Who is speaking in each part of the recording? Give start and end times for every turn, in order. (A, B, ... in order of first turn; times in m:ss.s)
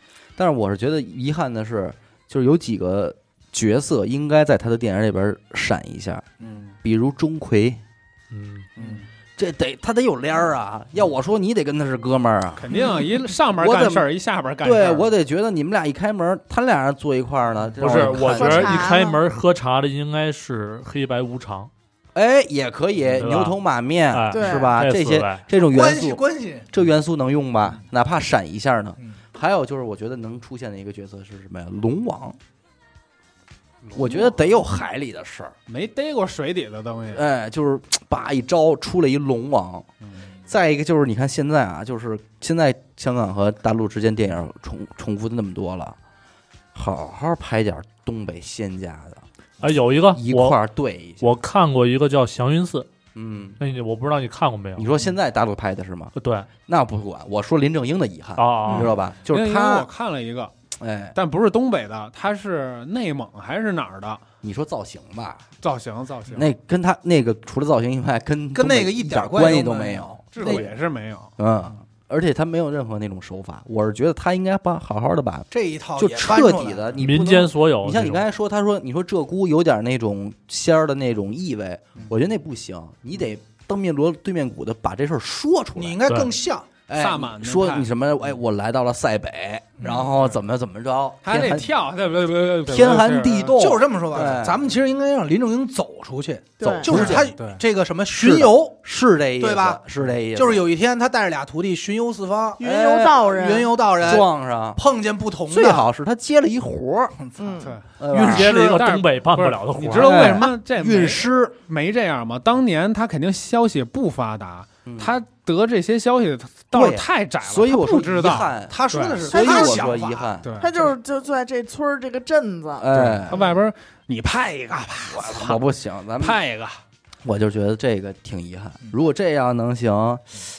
0:00.4-0:06.2 A
0:06.4-0:06.7 B
0:06.8-0:07.8 A
0:08.3-0:08.7 C
0:08.8-0:09.0 B
0:09.4-0:12.9 A
0:12.6-0:15.1 B
0:13.5-0:14.1 A
0:14.6-0:18.9 A
0:17.8-0:21.7 C
0:17.8-0:19.2 D
0:22.1-0:32.4 A
0:23.2-0:23.6 C
0:24.1-0:25.4 C
0:24.3-0:24.8 D
0:25.6-0:26.7 E
0:33.8-0:34.4 B
0:33.9-0:35.5 A
0:35.7-0:37.2 B
0:37.1-0:39.9 A
0:40.5-0:46.0 A
0:46.7-0:49.2 A
0:49.6-0:50.6 C
0:50.1-0:51.3 A
0:51.2-0:52.9 C
0:53.1-0:53.6 A
0:53.6-0:55.0 C
0:54.8-0:59.9 A
0:56.2-0:56.5 C
0:58.4-0:58.9 C
0:58.7-1:00.5 B
1:00.8-1:01.2 A
1:01.1-1:04.2 B
1:04.4-1:05.4 A
1:05.6-1:06.5 B
1:06.3-1:10.7 A
1:08.5-1:10.7 E
1:10.3-1:11.3 B
1:11.4-1:26.2 A
1:15.5-1:17.0 E
1:17.0-1:18.2 C
1:25.8-1:26.7 E
1:26.9-1:31.7 A
1:26.9-1:27.9 B
1:29.8-1:30.1 E
1:29.8-1:30.2 B
1:31.2-1:34.5 B
1:32.6-1:34.6 A
1:33.6-1:38.8 E
1:36.6-1:36.9 D
1:36.6-1:37.3 A
1:36.9-1:37.6 B
1:38.1-1:40.6 A
1:39.4-1:39.8 E
1:40.3-1:42.6 E
1:42.6-1:43.7 D
1:42.6-1:43.3 A
1:43.2-1:45.8 E
1:44.0-1:44.8 A
1:45.5-1:47.2 A
1:47.2-1:47.6 E
1:47.4-1:47.7 D
1:48.0-1:48.6 A
1:48.1-1:48.9 E
1:48.1-1:50.3 C
1:48.6-1:59.3 B
1:50.0-1:51.5 A
1:54.8-1:55.2 A
1:56.7-2:00.5 A
1:58.7-2:00.3 E
1:59.3-2:00.0 D
2:00.4-2:00.8 B
2:00.6-2:03.5 D
2:02.8-2:03.4 A
2:02.9-2:05.7 B
2:05.1-2:06.4 A
2:06.2-2:06.8 B
2:07.2-2:10.4 A